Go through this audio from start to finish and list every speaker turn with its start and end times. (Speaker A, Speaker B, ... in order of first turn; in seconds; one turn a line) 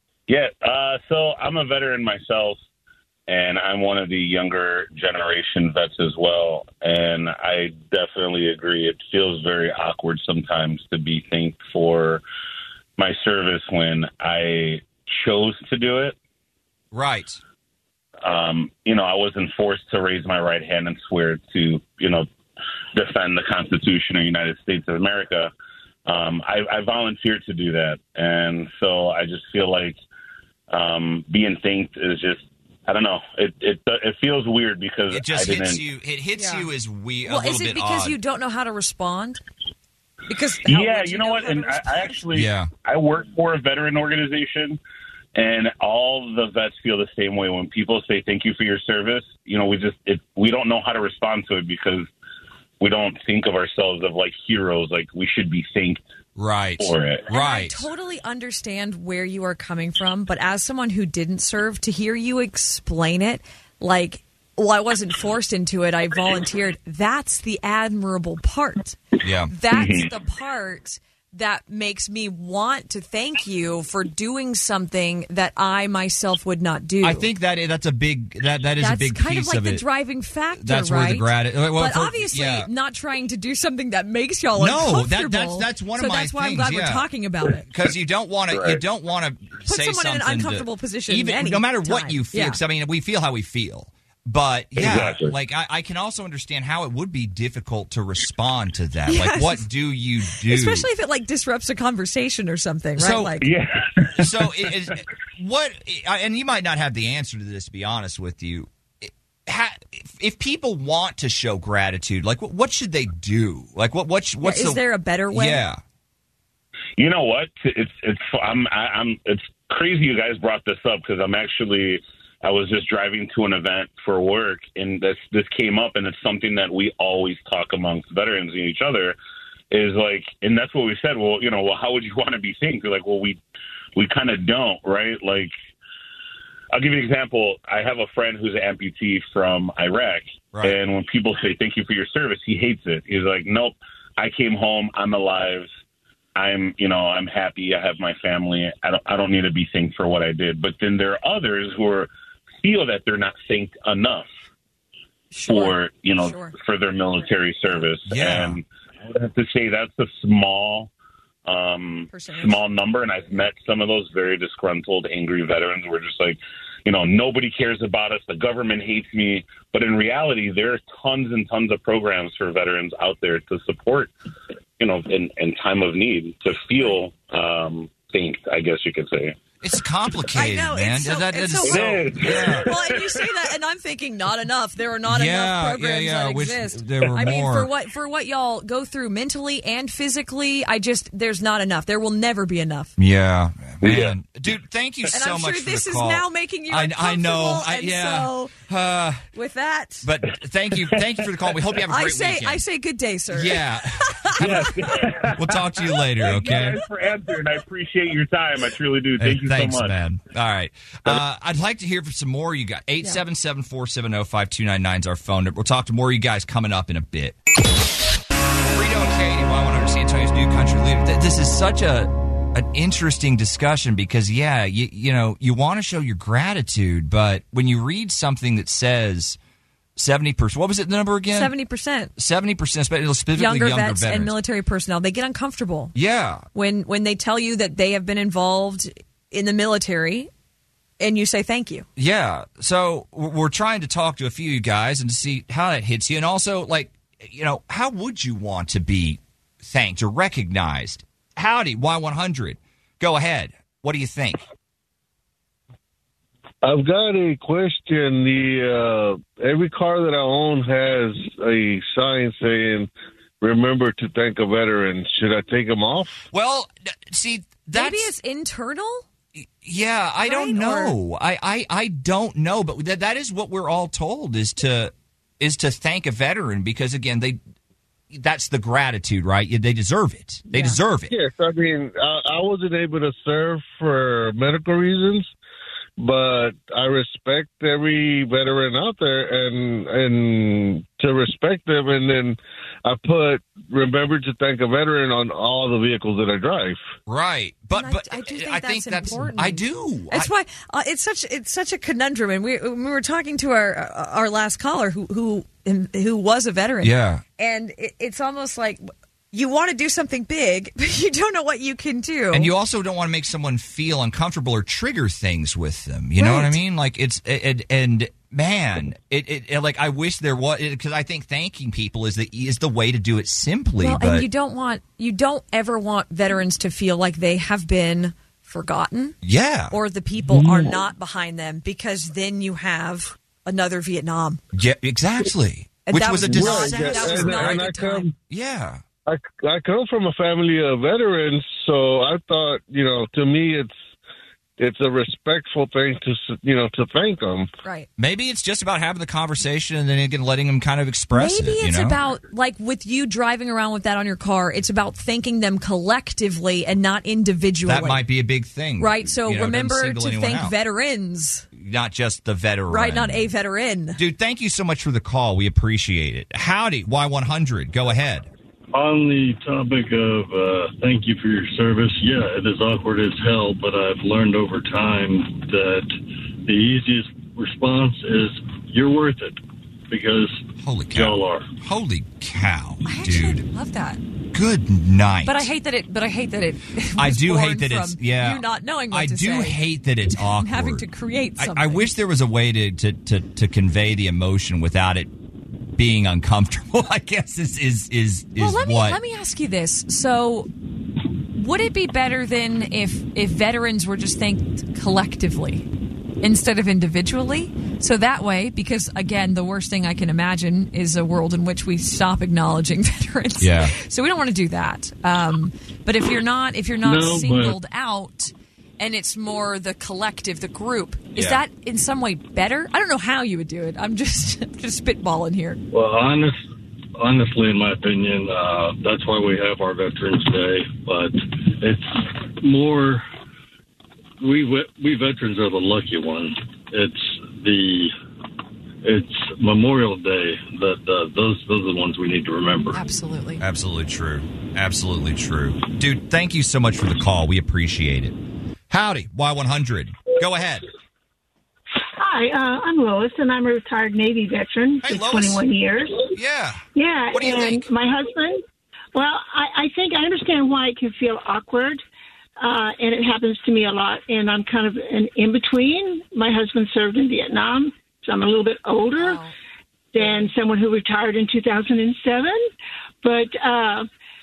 Speaker A: 0.3-2.6
Speaker A: 3.3-12.2
Speaker A: 13.0-16.1
Speaker B: 16.9-17.4
Speaker A: 18.2-22.3
Speaker A: 22.9-25.5
Speaker A: 26.1-30.0
Speaker A: 30.7-35.8
Speaker B: 35.1-38.2
Speaker C: 36.3-36.7
Speaker C: 37.2-39.4
Speaker C: 40.3-42.2
Speaker A: 40.6-44.8
Speaker B: 42.3-42.7
Speaker A: 45.3-52.1
Speaker A: 52.8-56.0
Speaker B: 56.4-57.9
Speaker A: 56.8-57.2
Speaker C: 57.3-77.3
Speaker B: 69.2-69.5
Speaker A: 69.7-70.0
Speaker B: 77.0-79.8
Speaker C: 78.8-87.7
Speaker B: 80.5-82.7
Speaker B: 84.5-87.0
Speaker B: 87.6-100.9
Speaker A: 88.5-88.8
Speaker C: 89.7-92.6
Speaker A: 94.8-95.3
Speaker C: 99.1-99.7
Speaker C: 100.4-103.5
Speaker B: 103.0-103.4
Speaker A: 103.4-104.9
Speaker B: 104.2-115.8
Speaker C: 114.4-115.6
Speaker A: 117.0-129.1
Speaker A: 129.7-133.4
Speaker A: 133.9-135.5
Speaker A: 136.7-145.7
Speaker A: 146.3-152.1
Speaker A: 152.6-154.3
Speaker C: 155.3-156.5
Speaker A: 155.5-160.9
Speaker B: 158.1-158.6
Speaker A: 161.4-174.1
Speaker C: 162.1-162.6
Speaker A: 174.8-179.4
Speaker B: 179.6-182.9
Speaker C: 180.3-192.9
Speaker A: 181.7-183.0
Speaker B: 185.1-187.7
Speaker B: 193.0-199.3
Speaker A: 193.8-194.1
Speaker C: 195.1-198.5
Speaker C: 199.3-200.1
Speaker B: 200.0-202.6
Speaker C: 201.9-204.9
Speaker B: 203.3-206.8
Speaker A: 204.4-209.9
Speaker B: 209.2-217.4
Speaker B: 218.7-229.4
Speaker B: 229.9-231.5
Speaker C: 231.3-232.1
Speaker B: 232.2-234.3
Speaker C: 233.3-235.9
Speaker B: 235.9-236.4
Speaker C: 236.5-240.3
Speaker C: 241.0-241.9
Speaker B: 241.9-254.4
Speaker D: 256.6-262.9
Speaker D: 263.4-266.2
Speaker B: 266.3-268.1
Speaker C: 267.7-269.1
Speaker B: 269.4-277.4
Speaker C: 270.2-270.9
Speaker B: 278.1-281.1
Speaker C: 280.5-280.8
Speaker D: 281.1-285.3
Speaker D: 286.0-296.8
Speaker B: 297.1-300.3
Speaker C: 297.7-312.5
Speaker B: 306.8-307.2
Speaker B: 312.3-324.3
Speaker C: 316.2-316.6
Speaker C: 323.8-329.2
Speaker B: 329.2-329.8
Speaker C: 329.7-334.4
Speaker D: 330.3-330.7
Speaker B: 334.5-338.8
Speaker C: 335.9-338.1
Speaker D: 336.2-338.1
Speaker D: 339.1-343.7
Speaker D: 344.6-347.5
Speaker B: 348.0-352.0
Speaker C: 351.1-358.0
Speaker B: 357.6-360.6
Speaker C: 358.8-361.4
Speaker B: 361.5-363.3
Speaker C: 362.7-364.0
Speaker B: 364.0-368.3
Speaker E: 368.7-375.9
Speaker E: 376.4-379.4
Speaker E: 379.9-381.5
Speaker B: 380.6-383.4
Speaker C: 382.8-384.0
Speaker B: 384.3-385.5
Speaker C: 385.2-389.6
Speaker B: 387.0-390.8
Speaker C: 390.1-391.9
Speaker B: 391.4-395.1
Speaker B: 395.8-399.0
Speaker C: 398.4-400.5
Speaker C: 401.3-405.7
Speaker C: 406.2-425.6
Speaker B: 413.4-413.7
Speaker E: 416.8-417.6
Speaker B: 421.1-421.4
Speaker E: 425.7-426.5
Speaker E: 427.0-433.0
Speaker E: 434.2-437.9
Speaker E: 438.8-442.8
Speaker C: 442.7-443.4
Speaker B: 443.4-448.2
Speaker B: 448.7-450.6
Speaker F: 451.9-456.1
Speaker B: 454.8-455.4
Speaker B: 456.1-457.6
Speaker F: 456.7-458.4
Speaker F: 458.9-461.8
Speaker F: 462.4-469.2
Speaker C: 468.9-469.3
Speaker F: 469.9-472.4
Speaker F: 473.0-473.9